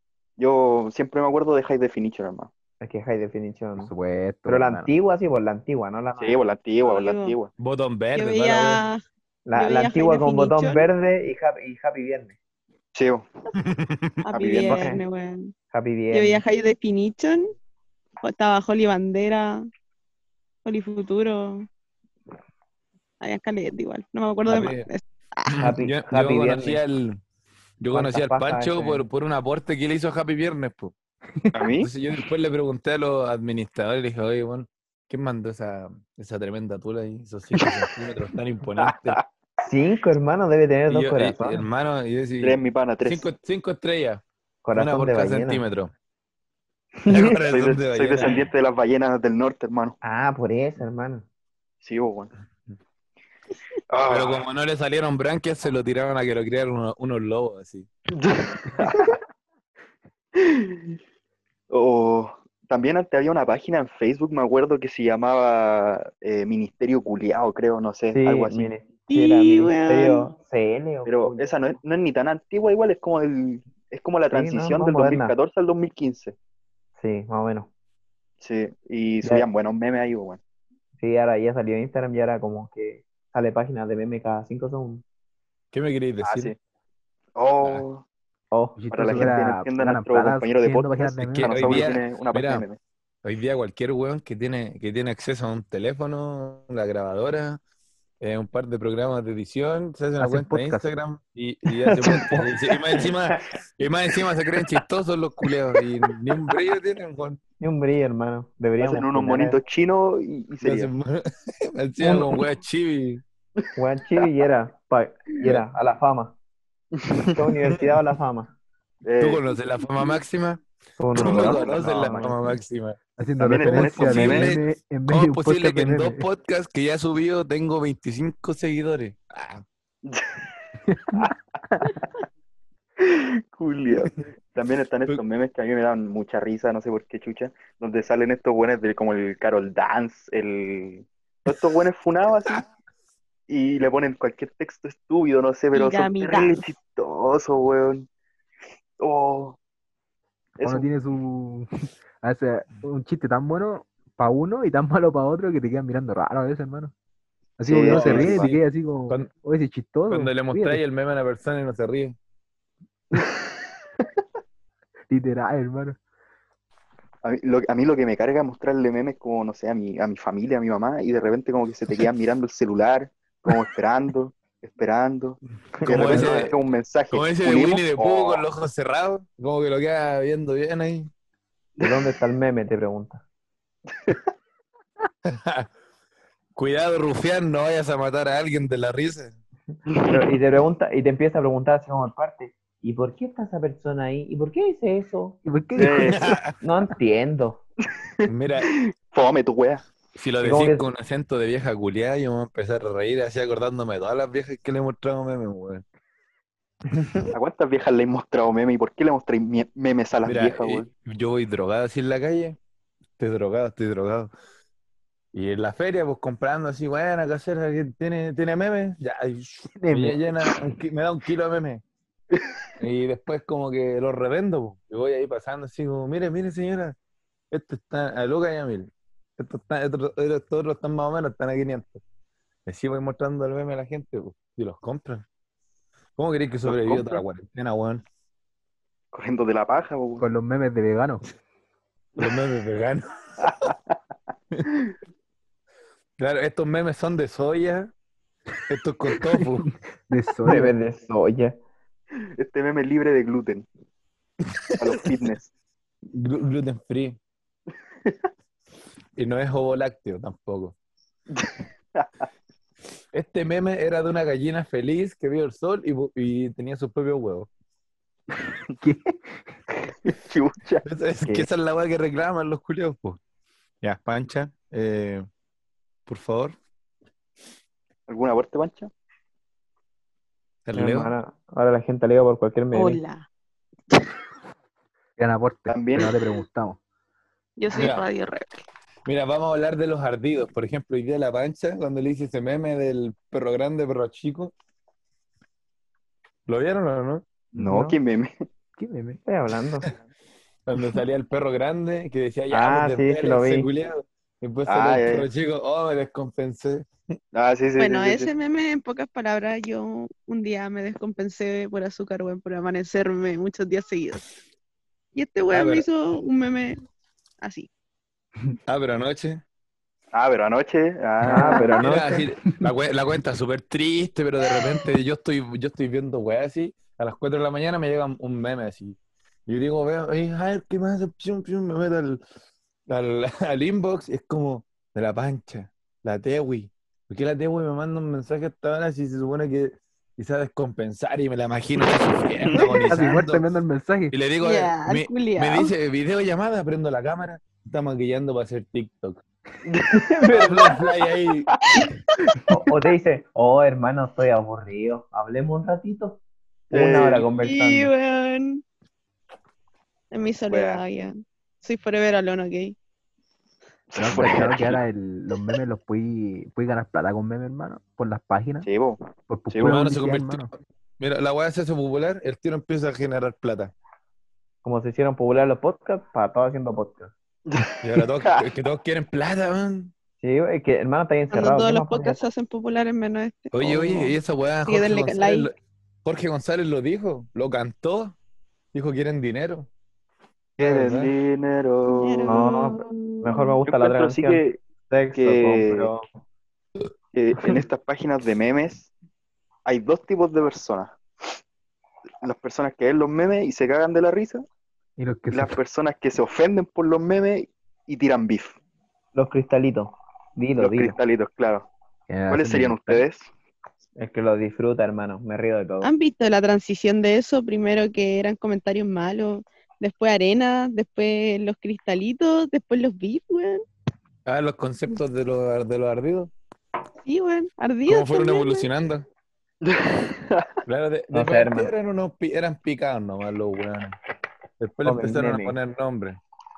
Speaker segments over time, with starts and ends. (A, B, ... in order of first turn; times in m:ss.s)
0:00.4-0:02.5 A
0:02.8-0:03.9 B
0:03.8-0:04.9 C
0:04.5-0:06.4 B
0:06.2-0:07.5 A
0:06.8-0:07.4 D
0:07.6-0:08.8 E
0:08.1-0:09.0 D
0:09.5-0:12.4 B
0:09.6-0:10.9 D
0:12.9-0:13.3 A
0:13.6-0:14.3 E
0:14.3-0:15.5 D
0:14.3-0:14.9 A
0:14.7-0:15.0 B
0:15.7-0:16.4 B
0:16.1-0:17.5 D
0:18.2-0:19.6 D
0:20.6-0:21.7 D
0:23.2-0:25.5 D
0:24.5-0:24.9 E
0:25.5-0:27.2 E
0:25.6-0:26.8 B
0:27.8-0:30.9 E
0:27.9-0:29.0 B
0:31.5-0:31.9 A
0:31.8-0:39.2 E
0:37.6-0:37.9 A
0:38.8-0:39.2 A
0:39.6-0:41.6 B
0:40.9-0:44.2 E
0:42.4-0:43.3 A
0:44.6-0:45.6 B
0:44.7-0:45.9 E
0:47.0-0:47.4 B
0:47.1-0:48.5 E
0:47.5-0:50.0 A
0:50.0-0:51.3 B
0:51.8-0:52.3 A
0:53.9-0:54.4 A
0:54.1-0:57.9 E
0:58.2-0:59.2 A
1:00.4-1:01.0 A
1:01.7-1:08.7 A
1:08.1-1:11.6 B
1:09.1-1:10.3 D
1:11.1-1:16.4 A
1:14.3-1:15.4 B
1:17.0-1:17.7 B
1:18.4-1:20.4 A
1:21.0-1:25.0 B
1:25.7-1:26.5 E
1:26.2-1:26.5 A
1:27.4-1:28.0 A
1:28.5-1:29.3 B
1:28.8-1:31.9 C
1:28.9-1:32.8 A
1:31.2-1:32.7 E
1:33.2-1:37.6 E
1:38.2-1:47.4 E
1:40.2-1:40.8 C
1:41.9-1:43.0 B
1:47.6-1:49.6 B
1:48.8-1:50.9 A
1:50.6-1:53.2 E
1:53.8-1:56.4 B
1:57.0-1:57.4 A
1:57.3-1:58.5 B
1:59.0-1:59.6 A
1:59.2-2:09.6 E
2:01.0-2:02.6 B
2:01.2-2:02.3 A
2:03.2-2:06.3 C
2:03.4-2:04.5 A
2:10.0-2:10.4 A
2:10.9-2:11.9 C
2:13.0-2:22.6 A
2:23.5-2:28.1 A
2:25.7-2:26.7 D
2:29.0-2:29.6 A
2:30.6-2:30.9 A
2:30.6-2:31.7 C
2:32.2-2:36.9 C
2:37.6-2:40.8 C
2:37.6-2:38.5 A
2:37.9-2:39.3 E
2:40.1-2:42.2 E
2:45.1-2:46.0 C
2:47.2-2:58.4 A
2:55.8-2:56.5 B
2:55.8-2:56.6 E
2:57.1-3:01.1 E
3:01.8-3:03.2 B
3:05.2-3:05.7 E
3:06.6-3:09.4 E
3:09.9-3:10.2 A
3:10.1-3:15.4 B
3:15.4-3:16.3 C
3:15.8-3:16.3 A
3:16.0-3:16.6 E
3:16.6-3:17.6 B
3:18.2-3:19.8 A
3:18.3-3:18.7 E
3:20.2-3:25.8 E
3:20.4-3:20.9 B
3:26.9-3:27.3 B
3:27.3-3:30.9 A
3:30.2-3:32.6 E
3:33.2-3:34.3 E
3:35.3-3:41.8 E
3:39.8-3:40.2 C
3:42.8-3:47.0 E
3:47.5-3:52.0 E
3:52.7-3:55.2 E
3:56.2-3:58.0 E
3:56.6-3:57.2 A
3:59.1-4:00.2 A
4:00.2-4:01.2 C
4:02.2-4:03.7 E
4:06.2-4:07.9 E
4:08.7-4:09.7 E
4:09.3-4:10.8 C
4:10.5-4:11.6 B
4:12.4-4:13.7 A
4:14.4-4:15.1 E
4:14.8-4:15.5 A
4:16.1-4:17.2 E
4:19.2-4:20.8 E
4:21.3-4:22.2 A
4:23.1-4:27.5 E
4:28.8-4:29.4 C
4:30.0-4:30.8 A
4:30.8-4:33.2 E
4:33.8-4:35.3 E
4:36.1-4:36.6 E
4:38.1-4:38.9 A
4:40.6-4:41.1 E
4:40.7-4:43.0 B
4:42.7-4:43.3 D
4:45.2-4:46.8 C
4:45.7-4:46.1 A
4:47.6-4:48.7 D
4:47.7-4:48.1 E
4:49.0-4:54.5 E
4:56.5-4:57.2 E
4:57.6-4:58.3 A
4:57.6-4:58.0 B
4:58.8-4:59.2 C
4:59.3-4:59.9 B
5:00.7-5:06.9 E
5:02.5-5:03.7 B
5:04.7-5:05.3 A
5:07.3-5:08.3 A
5:07.8-5:14.3 D
5:15.2-5:16.8 D
5:15.5-5:15.9 E
5:17.4-5:17.7 D
5:18.7-5:19.4 E
5:20.1-5:21.8 A
5:21.2-5:22.2 B
5:21.2-5:21.6 C
5:21.8-5:32.2 E
5:32.9-5:43.5 E
5:42.4-5:43.0 A
5:42.9-5:44.2 C
5:44.1-5:49.2 E
5:44.4-5:45.7 D
5:49.7-5:50.7 A
5:49.9-5:50.7 B
5:50.3-5:51.5 E
5:52.5-5:57.9 B
5:56.7-5:57.3 A
5:57.4-5:58.6 D
6:00.1-6:02.8 D
6:00.5-6:00.8 A
6:03.9-6:04.8 A
6:04.0-6:08.7 C
6:08.6-6:09.7 A
6:09.3-6:10.5 C
6:09.6-6:13.7 E
6:14.6-6:17.1 B
6:17.5-6:18.4 A
6:17.8-6:19.9 E
6:20.2-6:22.2 B
6:21.3-6:24.2 D
6:23.5-6:28.2 E
6:24.7-6:25.5 D
6:28.7-6:29.7 E
6:30.6-6:31.1 E
6:30.6-6:32.4 A
6:31.9-6:33.6 D
6:32.3-6:36.0 B
6:33.7-6:34.6 A
6:35.2-6:35.9 A
6:37.1-6:38.9 A
6:39.7-6:41.0 A
6:42.2-6:44.4 A
6:45.0-6:45.6 C
6:45.3-6:48.6 A
6:49.1-6:51.0 B
6:50.6-6:51.7 A
6:52.1-6:53.0 C
6:52.3-6:53.3 A
6:54.0-6:55.9 B
6:55.8-7:03.6 D
7:04.3-7:06.3 E
7:07.0-7:08.7 D
7:07.9-7:09.1 E
7:09.6-7:10.6 A
7:10.7-7:14.0 E
7:11.1-7:11.7 B
7:14.6-7:16.2 E
7:14.8-7:15.6 B